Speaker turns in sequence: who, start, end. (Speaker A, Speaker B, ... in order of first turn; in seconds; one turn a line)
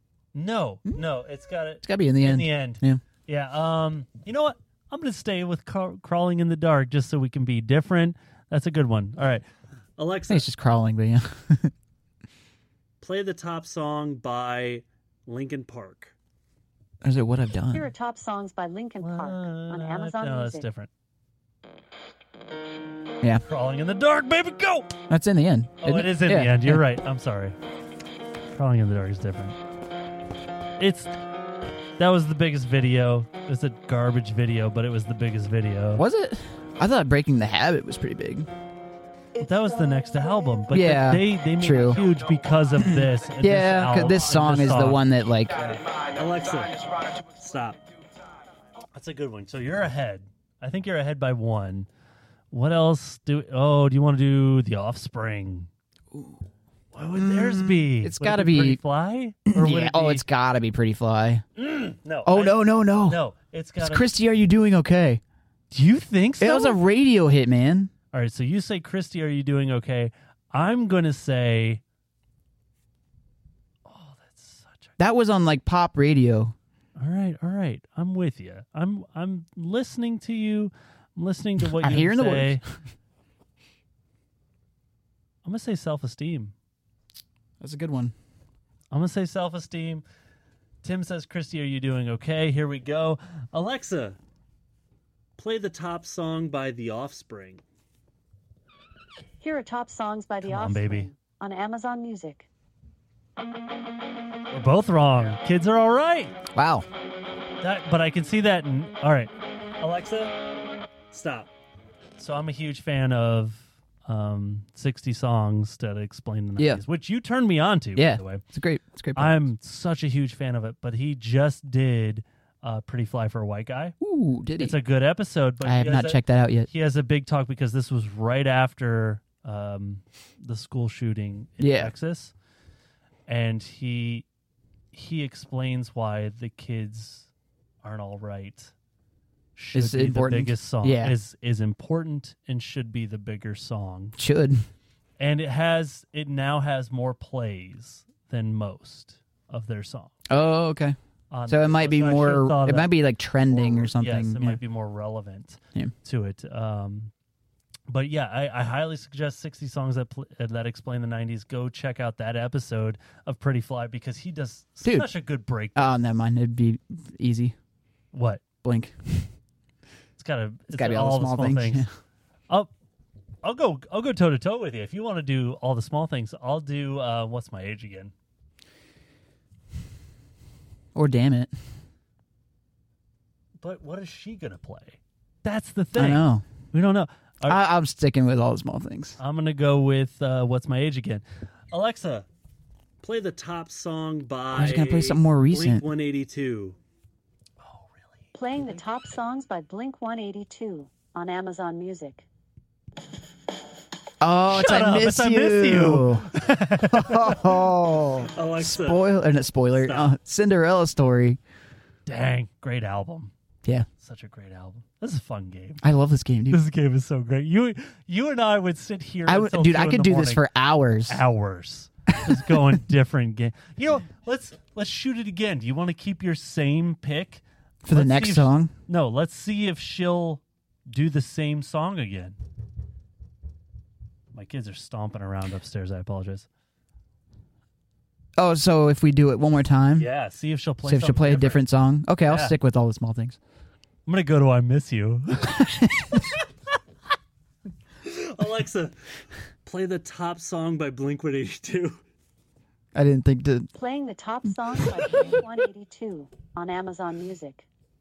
Speaker A: 0.3-9.4
Speaker B: 1.8-3.0
Speaker A: 10.0-10.4
Speaker B: 10.3-11.7
Speaker A: 13.0-16.1
Speaker B: 17.0-17.9
Speaker C: 17.7-20.7
Speaker A: 19.0-20.9
Speaker A: 23.4-24.9
Speaker B: 25.1-26.8
Speaker A: 25.8-27.6
Speaker A: 28.5-29.6
Speaker A: 30.8-31.1
Speaker A: 32.0-36.0
Speaker B: 36.0-38.5
Speaker A: 39.4-47.8
Speaker B: 40.7-42.0
Speaker B: 42.8-45.6
Speaker A: 48.9-51.9
Speaker A: 52.5-55.7
Speaker B: 56.1-56.4
Speaker A: 56.9-60.2
Speaker B: 57.2-58.8
Speaker B: 59.5-61.4
Speaker A: 61.5-64.1
Speaker B: 62.3-63.2
Speaker B: 63.8-65.2
Speaker A: 65.7-66.8
Speaker B: 66.4-67.9
Speaker A: 68.1-71.8
Speaker A: 73.8-74.9
Speaker B: 75.0-76.5
Speaker A: 77.0-82.6
Speaker B: 81.7-82.6
Speaker A: 85.4-86.5
Speaker B: 87.6-88.1
Speaker A: 88.9-90.0
Speaker A: 90.8-94.2
Speaker A: 95.4-97.6
Speaker C: 99.4-102.5
Speaker A: 100.4-101.1
Speaker A: 104.5-106.3
Speaker B: 106.5-106.9
Speaker A: 107.6-110.3
Speaker A: 111.1-111.5
Speaker A: 112.2-118.4
Speaker B: 116.6-116.8
Speaker B: 118.0-119.4
Speaker A: 119.1-123.9
Speaker B: 124.0-124.8
Speaker A: 124.6-132.3
Speaker B: 125.6-126.7
Speaker B: 131.6-131.9
Speaker A: 133.3-134.3
Speaker A: 134.9-137.3
Speaker A: 137.8-138.7
Speaker A: 139.6-144.2
Speaker B: 139.7-141.2
Speaker B: 144.2-144.6
Speaker A: 145.2-150.1
Speaker B: 150.3-150.9
Speaker A: 151.3-152.9
Speaker B: 151.5-154.6
Speaker A: 153.5-157.1
Speaker A: 157.9-165.8
Speaker B: 164.8-165.1
Speaker B: 165.7-167.6
Speaker A: 168.1-168.4
Speaker B: 168.6-169.3
Speaker A: 170.2-171.8
Speaker B: 170.7-171.9
Speaker A: 173.4-178.1
Speaker B: 180.9-181.5
Speaker A: 183.6-187.6
Speaker B: 185.9-186.4
Speaker B: 187.5-189.2
Speaker A: 189.2-192.3
Speaker A: 193.0-196.8
Speaker B: 194.5-195.9
Speaker A: 197.6-198.3
Speaker C: 198.3-202.3
Speaker B: 204.2-211.4
Speaker A: 204.5-207.7
Speaker A: 208.3-209.1
Speaker A: 209.7-210.2
Speaker A: 212.1-213.3
Speaker A: 214.0-215.8
Speaker B: 215.8-216.6
Speaker A: 216.5-220.4
Speaker B: 219.3-221.2
Speaker A: 221.1-232.4
Speaker B: 227.8-228.7
Speaker A: 234.3-236.5
Speaker B: 238.4-240.1
Speaker A: 240.0-241.6
Speaker B: 240.8-243.4
Speaker A: 242.2-242.6
Speaker A: 244.1-246.4
Speaker A: 248.0-248.9
Speaker A: 249.6-252.0
Speaker B: 252.9-253.7
Speaker C: 253.8-257.6